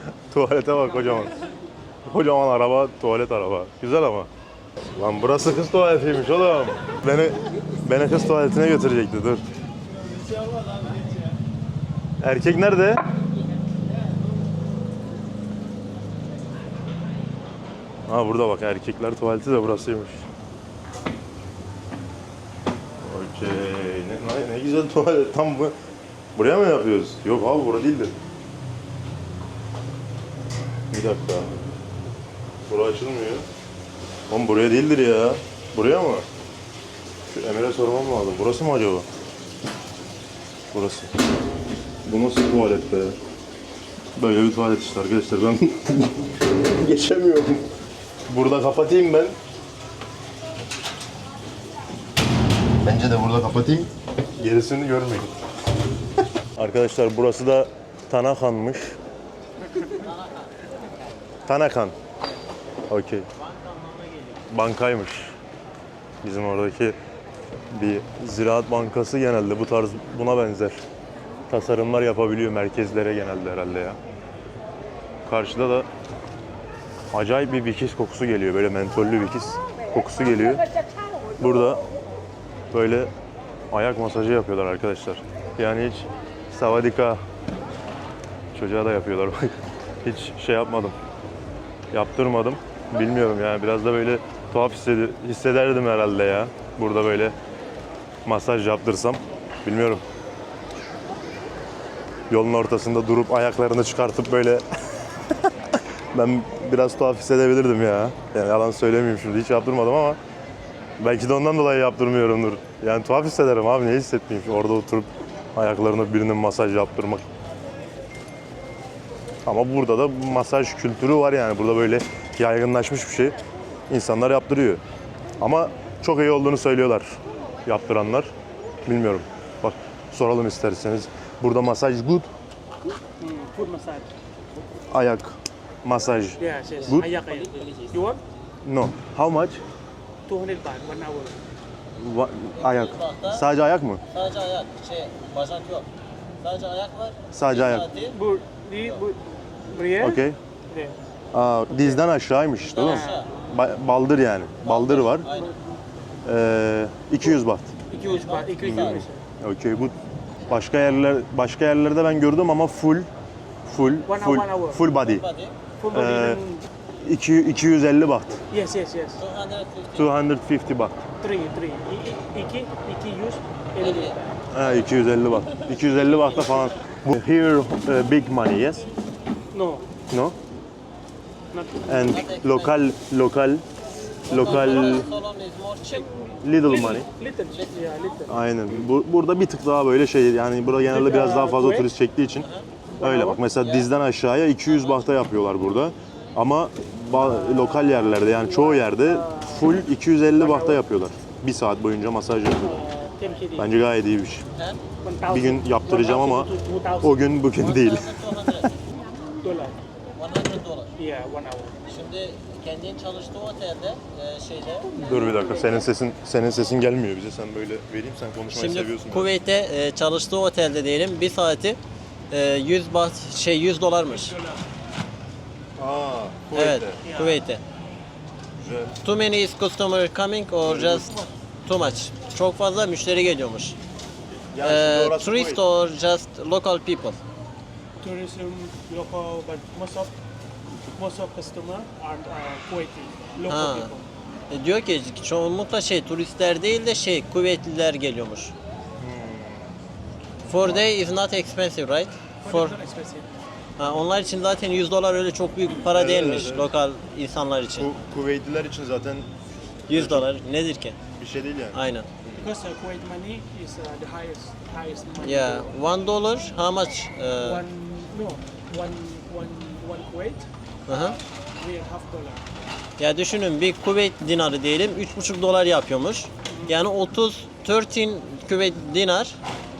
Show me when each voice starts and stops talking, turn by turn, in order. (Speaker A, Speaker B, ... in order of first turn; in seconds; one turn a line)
Speaker A: 0.3-1.3
Speaker A: 2.1-4.3
Speaker A: 4.9-9.4
Speaker A: 12.2-13.0
Speaker A: 18.1-20.2
Speaker A: 23.0-25.8
Speaker A: 26.4-28.1
Speaker A: 30.9-31.5
Speaker A: 32.7-33.4
Speaker A: 34.3-36.2
Speaker A: 37.3-39.1
Speaker A: 40.7-41.1
Speaker A: 42.1-43.1
Speaker A: 44.1-47.6
Speaker A: 48.3-49.4
Speaker A: 52.8-55.3
Speaker A: 56.6-59.0
Speaker B: 59.9-60.7
Speaker A: 61.5-61.9
Speaker A: 62.9-63.3
Speaker B: 63.4-64.5
Speaker A: 64.5-65.3
Speaker A: 66.2-67.0
Speaker A: 67.7-70.8
Speaker A: 71.5-74.0
Speaker A: 75.3-75.9
Speaker A: 77.1-80.6
Speaker A: 81.4-81.8
Speaker A: 82.7-83.1
Speaker A: 83.7-87.2
Speaker A: 88.5-89.5
Speaker A: 90.0-91.0
Speaker A: 91.9-97.3
Speaker A: 98.2-100.0
Speaker A: 102.3-104.6
Speaker A: 106.1-110.2
Speaker A: 111.0-117.2
Speaker A: 119.5-123.4
Speaker A: 123.9-124.8
Speaker A: 125.4-128.3
Speaker A: 128.9-132.3
Speaker C: 133.2-134.1
Speaker A: 134.9-137.1
Speaker C: 136.4-138.2
Speaker A: 138.6-139.6
Speaker C: 140.3-141.4
Speaker A: 142.0-144.0
Speaker B: 142.5-143.5
Speaker B: 144.1-145.9
Speaker B: 146.4-148.2
Speaker A: 147.3-147.9
Speaker C: 148.1-151.0
Speaker A: 150.0-150.4
Speaker A: 151.3-155.3
Speaker B: 152.6-153.3
Speaker C: 152.8-153.3
Speaker B: 154.6-155.6
Speaker A: 156.2-157.7
Speaker C: 157.9-159.2
Speaker B: 158.0-159.0
Speaker A: 158.6-159.9
Speaker A: 160.5-163.1
Speaker A: 163.7-165.2
Speaker C: 164.1-164.9
Speaker B: 164.9-165.6
Speaker C: 165.8-166.6
Speaker A: 165.9-166.4
Speaker A: 167.0-168.4
Speaker C: 168.5-169.2
Speaker B: 169.1-170.1
Speaker A: 169.9-171.0
Speaker C: 171.2-174.2
Speaker B: 173.8-174.2
Speaker A: 174.5-178.9
Speaker C: 179.5-179.8
Speaker A: 180.1-180.3
Speaker C: 181.5-182.2
Speaker A: 181.9-183.6
Speaker B: 182.1-182.8
Speaker B: 184.3-186.1
Speaker A: 184.3-185.1
Speaker C: 185.9-188.3
Speaker A: 186.4-187.1
Speaker B: 187.5-187.9
Speaker A: 188.3-192.5
Speaker C: 190.8-191.9
Speaker B: 192.4-192.7
Speaker C: 193.0-193.4
Speaker A: 193.0-202.7
Speaker B: 193.6-193.9
Speaker B: 194.7-195.1
Speaker C: 197.5-199.6
Speaker C: 200.3-200.8
Speaker C: 202.6-203.8
Speaker A: 203.6-204.4
Speaker B: 204.6-204.8
Speaker C: 205.0-207.4
Speaker A: 205.3-206.5
Speaker A: 207.0-208.6
Speaker B: 207.5-208.7
Speaker C: 209.4-209.8
Speaker B: 210.2-210.9
Speaker C: 211.0-211.8
Speaker B: 211.9-215.0
Speaker A: 215.0-219.3
Speaker B: 218.5-221.8
Speaker B: 222.3-224.4
Speaker A: 225.8-227.2
Speaker B: 226.5-227.6
Speaker A: 228.6-229.0
Speaker B: 229.0-233.8
Speaker A: 230.6-231.2
Speaker A: 234.5-235.6
Speaker B: 234.6-237.2
Speaker C: 238.0-240.1
Speaker C: 240.9-244.0
Speaker B: 243.5-243.9
Speaker B: 244.5-248.5
Speaker A: 249.0-249.7
Speaker B: 250.5-252.8
Speaker A: 250.6-250.9
Speaker C: 252.4-253.3
Speaker B: 253.8-257.9
Speaker A: 255.9-256.7
Speaker A: 257.8-259.3
Speaker B: 259.9-261.0
Speaker A: 259.9-260.3
Speaker A: 261.1-261.8
Speaker B: 261.7-262.1
Speaker C: 262.4-265.7
Speaker B: 265.2-267.6
Speaker C: 267.4-270.5
Speaker B: 270.9-271.2
Speaker C: 271.6-272.4
Speaker B: 273.0-279.4